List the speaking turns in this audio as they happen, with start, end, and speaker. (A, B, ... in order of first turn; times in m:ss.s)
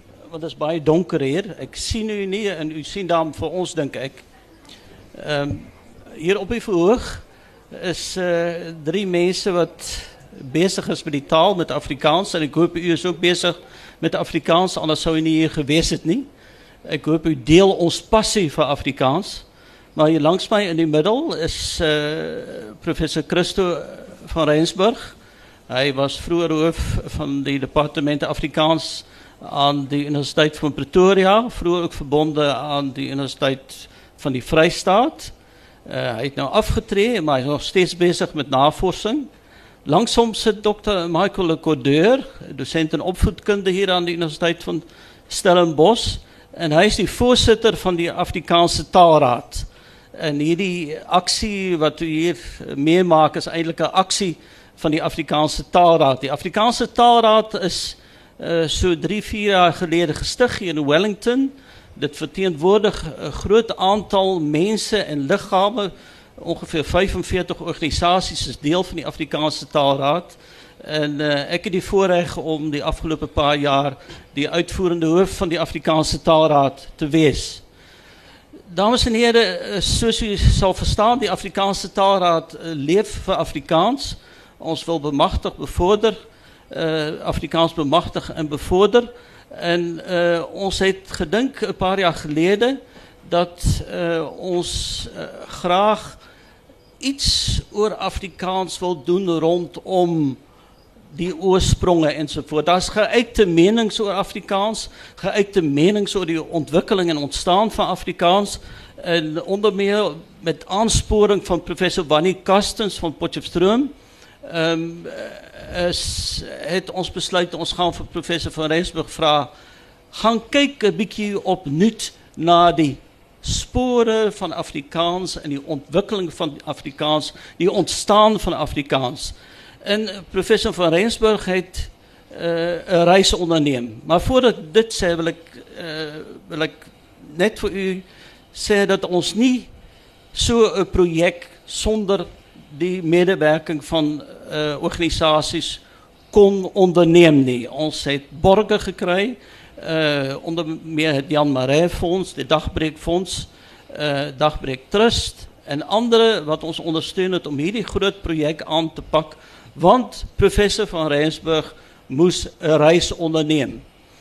0:00.3-0:04.2 A
0:05.1-0:16.3 A
0:16.8-0:25.2 A
0:25.7-0:35.3 A
0:35.9-0:39.3 A
0:39.9-1:17.6 A
1:18.7-1:36.2 A
1:37.0-1:40.4 A
1:41.1-1:53.9 A
1:54.4-1:59.5 A
2:00.1-2:19.7 A
2:20.3-2:43.8 A